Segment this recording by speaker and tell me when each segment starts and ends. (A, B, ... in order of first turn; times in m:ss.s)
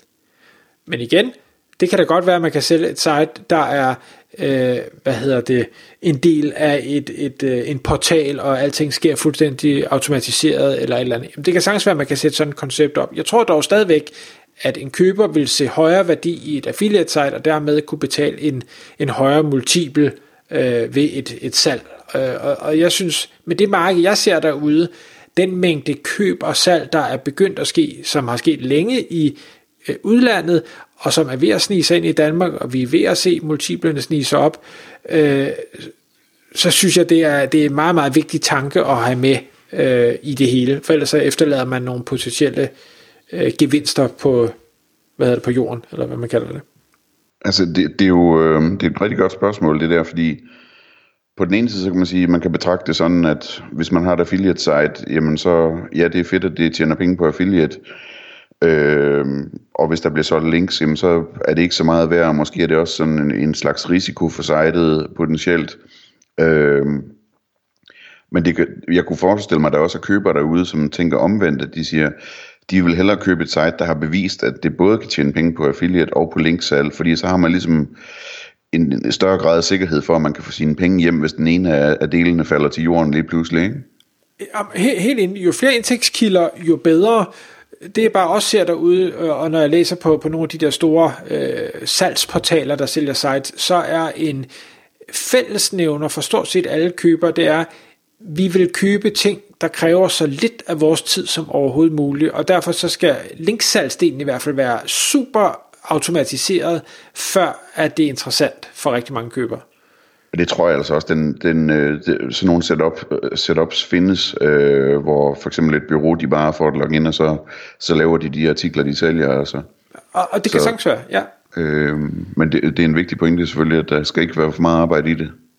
0:00.9-0:35.9 A
0:36.5-0:42.7 A
0:43.3-0:44.5 A
0:45.2-0:46.6 A
0:47.4-0:50.4 B
0:51.4-0:57.8 B
0:58.6-1:05.8 B
1:06.4-1:07.1 B
1:08.3-1:12.2 B
1:12.7-1:18.0 B
1:18.7-1:23.8 B
1:24.4-1:27.3 A
1:27.8-1:34.5 A
1:35.1-1:37.7 A
1:38.2-1:49.6 A
1:50.3-1:59.6 B
2:00.1-2:01.3 A
2:00.5-2:00.8 B
2:01.5-2:05.3 B